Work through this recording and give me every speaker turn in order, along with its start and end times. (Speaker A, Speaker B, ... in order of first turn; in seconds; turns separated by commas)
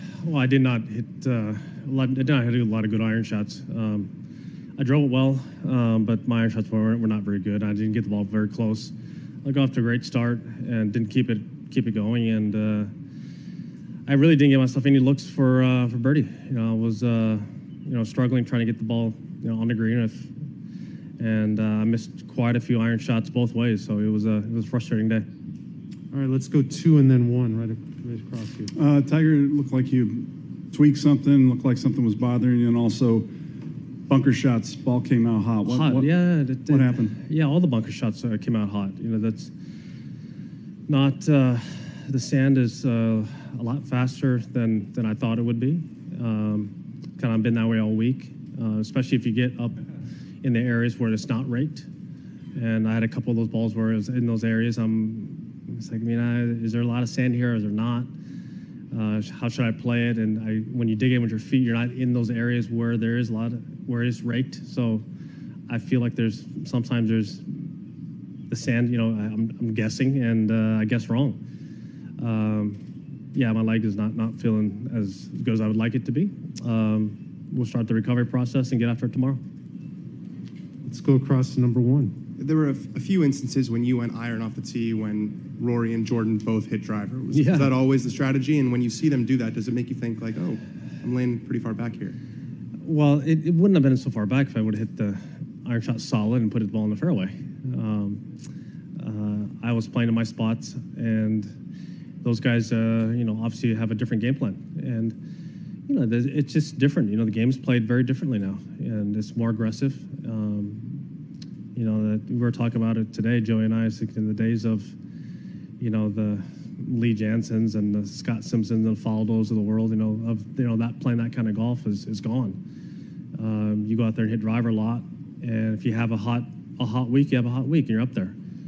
Speaker A: 0.2-4.1, Speaker A: 4.8-8.9, Speaker A: 9.4-12.9, Speaker A: 14.1-20.3, Speaker A: 21.2-25.2, Speaker B: 26.1-28.7, Speaker C: 28.7-33.3, Speaker C: 34.1-36.1, Speaker A: 35.6-39.5, Speaker C: 36.7-37.2, Speaker A: 40.9-49.8, Speaker A: 50.4-51.9, Speaker A: 52.5-58.1, Speaker A: 58.9-65.0, Speaker A: 65.7-67.7, Speaker A: 68.5-71.4, Speaker A: 72.2-72.8, Speaker A: 73.3-79.4, Speaker B: 80.8-82.1, Speaker D: 82.4-92.2, Speaker A: 87.3-87.7, Speaker A: 92.8-98.2, Speaker A: 99.0-101.5, Speaker A: 102.2-105.2, Speaker A: 105.9-110.9, Speaker A: 111.7-114.9, Speaker A: 115.8-122.6, Speaker A: 123.3-128.3